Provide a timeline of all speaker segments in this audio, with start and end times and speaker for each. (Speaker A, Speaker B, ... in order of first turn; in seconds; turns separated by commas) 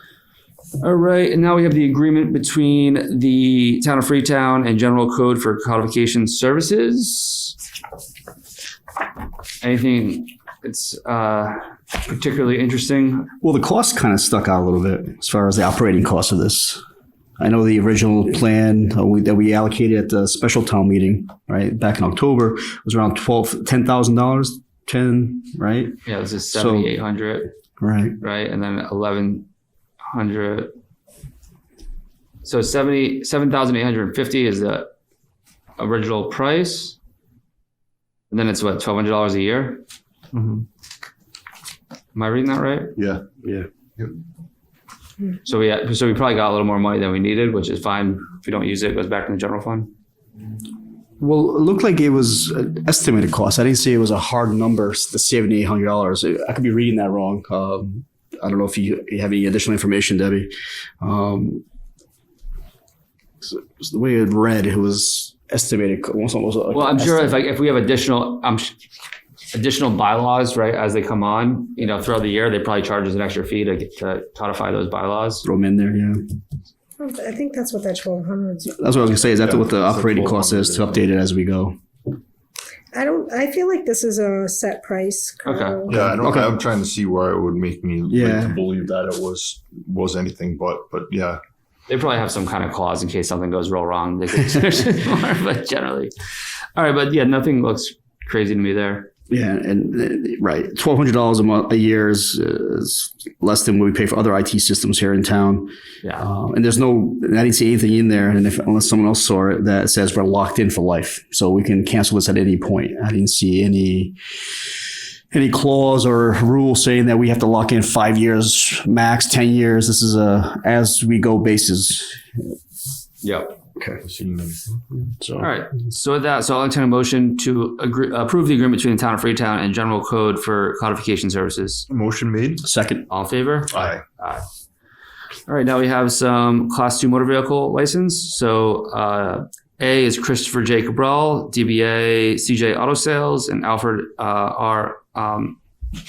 Speaker A: 0.8-7.5, Speaker A: 9.6-13.3, Speaker B: 13.4-16.8, Speaker B: 17.4-26.0, Speaker A: 26.1-27.5, Speaker B: 26.5-27.0, Speaker B: 27.8-28.2, Speaker A: 28.2-29.5, Speaker A: 30.1-30.7, Speaker A: 32.4-34.9, Speaker A: 35.8-37.0, Speaker A: 38.3-39.8, Speaker C: 40.3-40.6, Speaker A: 42.1-43.0, Speaker C: 43.0-43.2, Speaker B: 43.4-43.7, Speaker A: 45.5-49.9, Speaker B: 51.2-61.6, Speaker B: 63.4-67.4, Speaker A: 66.7-68.7, Speaker A: 69.5-75.5, Speaker B: 75.5-76.2, Speaker D: 77.0-79.0, Speaker B: 78.8-81.8, Speaker C: 79.3-81.0, Speaker D: 82.9-86.2, Speaker A: 85.5-85.8, Speaker C: 85.9-91.4, Speaker B: 85.9-86.6, Speaker B: 88.1-88.6, Speaker A: 91.9-96.1, Speaker A: 96.8-99.1, Speaker B: 99.3-122.5, Speaker A: 106.0-106.3, Speaker A: 123.2-123.5, Speaker B: 123.8-124.0, Speaker C: 124.0-124.8, Speaker B: 125.0-125.5, Speaker A: 125.4-131.9, Speaker C: 131.9-132.7, Speaker B: 132.6-133.1, Speaker A: 133.1-134.4, Speaker C: 133.7-134.0, Speaker A: 135.5-145.6